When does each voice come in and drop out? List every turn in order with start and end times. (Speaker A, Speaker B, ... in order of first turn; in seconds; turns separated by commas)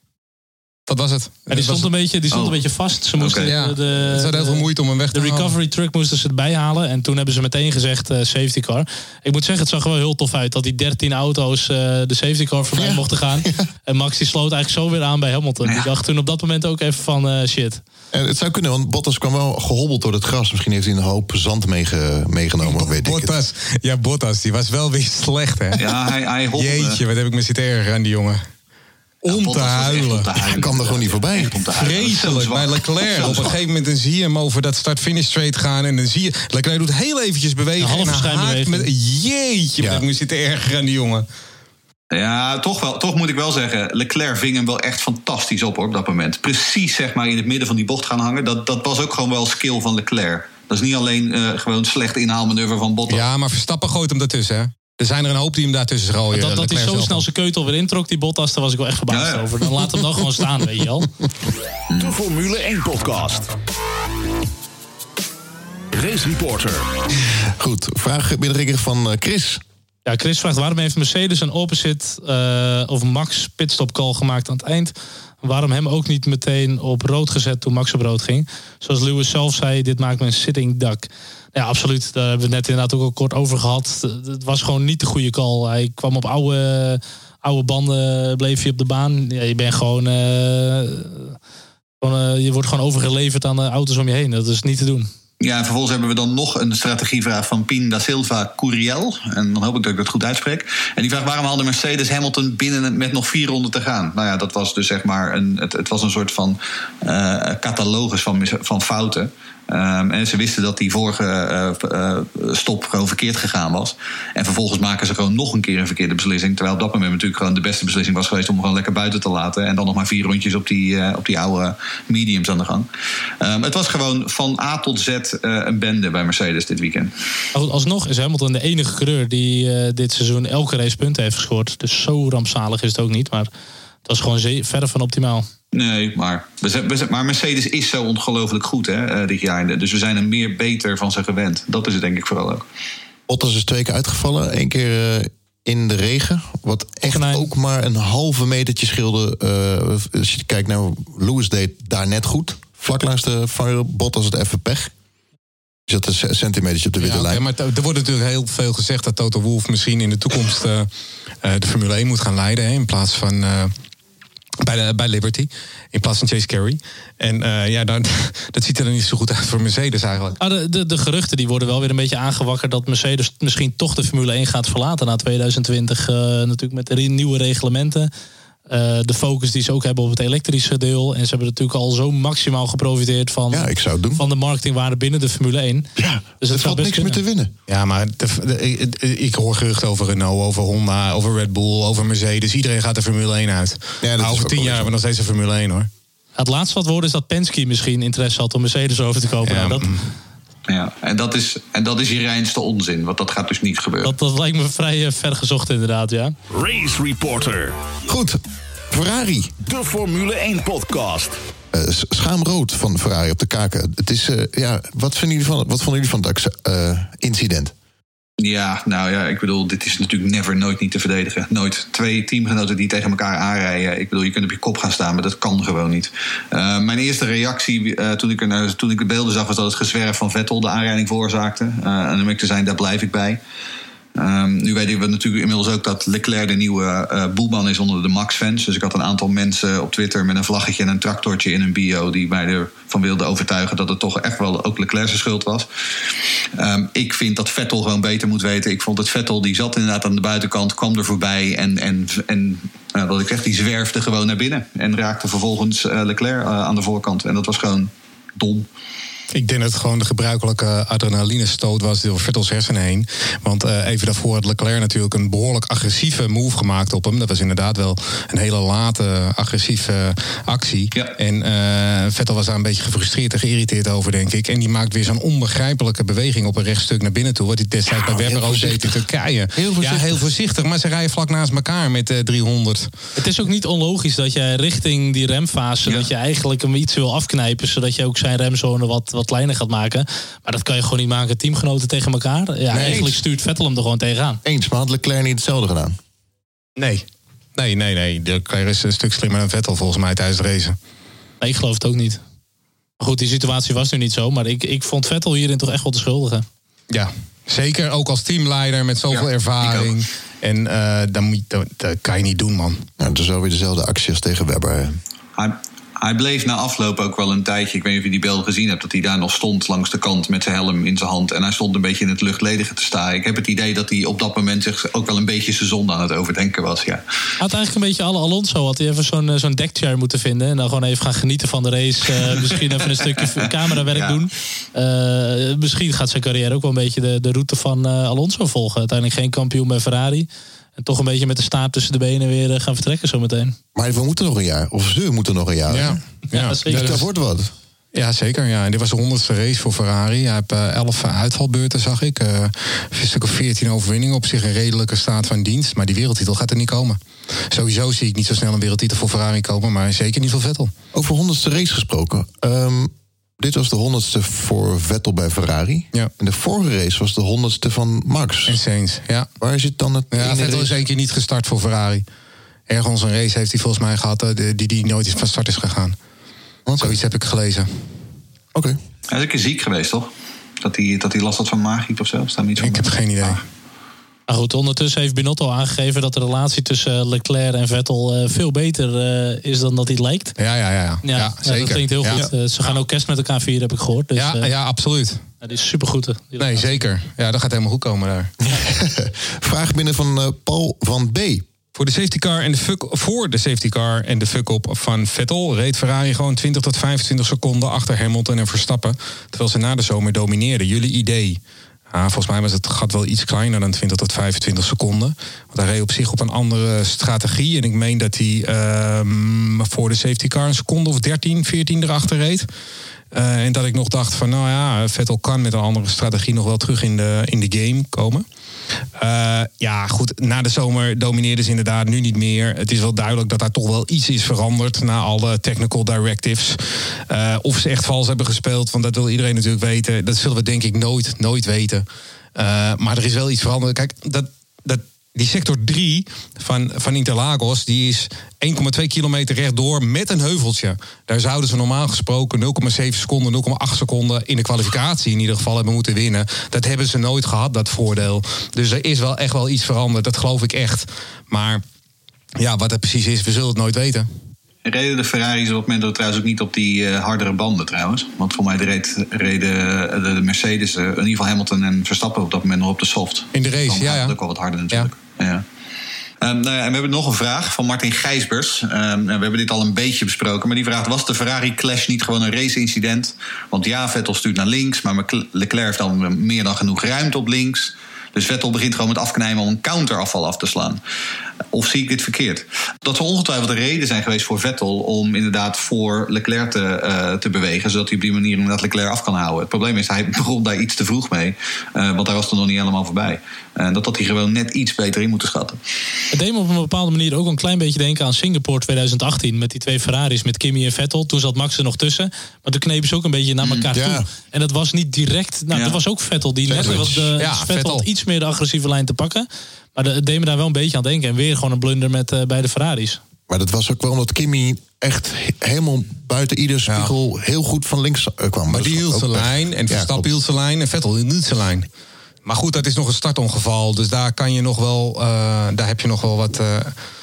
Speaker A: 0.9-1.9, Speaker B: 1.5-17.8, Speaker C: 2.3-2.6, Speaker C: 3.1-3.5, Speaker A: 3.4-5.5, Speaker D: 12.7-13.7, Speaker D: 18.1-23.3, Speaker A: 22.6-25.9, Speaker C: 25.8-27.0, Speaker A: 26.5-28.4, Speaker A: 29.2-30.5, Speaker C: 29.3-33.5, Speaker D: 30.6-31.6, Speaker A: 31.7-41.2, Speaker B: 37.8-38.9, Speaker C: 42.1-53.2, Speaker A: 53.1-57.2, Speaker B: 56.3-61.1, Speaker C: 59.1-59.5, Speaker C: 61.9-62.1, Speaker E: 62.0-63.5, Speaker E: 65.9-66.9, Speaker D: 67.6-69.6, Speaker B: 70.0-91.3, Speaker B: 92.0-95.1, Speaker C: 95.4-122.9, Speaker C: 123.4-127.1, Speaker B: 127.5-133.5, Speaker B: 134.1-135.5, Speaker C: 135.7-142.6, Speaker D: 143.3-154.9, Speaker B: 147.1-147.5, Speaker D: 155.9-157.4, Speaker A: 157.0-160.9, Speaker A: 161.4-163.7, Speaker A: 164.6-170.4, Speaker B: 170.4-178.1, Speaker B: 178.7-187.2, Speaker D: 183.5-184.2, Speaker D: 186.0-187.5, Speaker A: 187.7-195.9, Speaker D: 194.0-194.9, Speaker B: 196.4-199.9, Speaker A: 199.4-200.1, Speaker C: 200.7-204.1, Speaker B: 204.0-206.3, Speaker E: 206.5-207.9, Speaker D: 208.0-208.4, Speaker D: 208.9-209.5, Speaker E: 209.6-211.3, Speaker D: 211.7-217.7, Speaker C: 218.4-233.4, Speaker C: 234.2-245.7, Speaker C: 246.5-258.7, Speaker A: 259.3-282.9, Speaker D: 277.9-279.0, Speaker D: 279.6-280.2, Speaker B: 283.1-294.4, Speaker D: 292.7-293.2, Speaker D: 294.4-296.0, Speaker A: 296.8-297.0, Speaker A: 297.6-300.8, Speaker B: 301.4-302.2, Speaker B: 303.0-306.4, Speaker A: 306.9-312.9, Speaker C: 309.1-309.9, Speaker D: 313.0-315.0, Speaker C: 315.4-327.0, Speaker B: 327.4-343.6, Speaker C: 333.0-334.2, Speaker D: 343.7-346.0, Speaker A: 345.7-347.0, Speaker B: 346.3-347.0, Speaker D: 346.6-347.5, Speaker A: 347.9-360.7, Speaker D: 360.9-368.6, Speaker A: 368.4-369.3, Speaker D: 369.4-370.8, Speaker A: 370.1-372.0, Speaker A: 372.7-375.9, Speaker D: 376.7-377.0, Speaker A: 376.8-377.7, Speaker C: 379.1-380.1, Speaker C: 380.6-383.4, Speaker A: 382.6-383.4, Speaker B: 384.3-390.4, Speaker A: 390.4-392.2, Speaker B: 391.0-394.5, Speaker A: 394.1-395.2, Speaker B: 395.4-396.7, Speaker A: 396.4-398.3, Speaker D: 398.5-401.4, Speaker A: 401.7-422.5, Speaker A: 423.1-428.2, Speaker A: 429.0-441.8, Speaker A: 442.4-461.6, Speaker A: 462.4-464.1, Speaker C: 464.6-475.4, Speaker A: 473.3-474.2, Speaker C: 476.2-490.8, Speaker C: 491.5-505.6, Speaker B: 506.1-523.0, Speaker D: 513.7-514.1, Speaker C: 515.5-515.8, Speaker A: 516.5-517.9, Speaker D: 516.5-517.1, Speaker D: 523.3-530.1, Speaker A: 526.7-526.9, Speaker A: 528.5-531.7, Speaker A: 532.2-536.7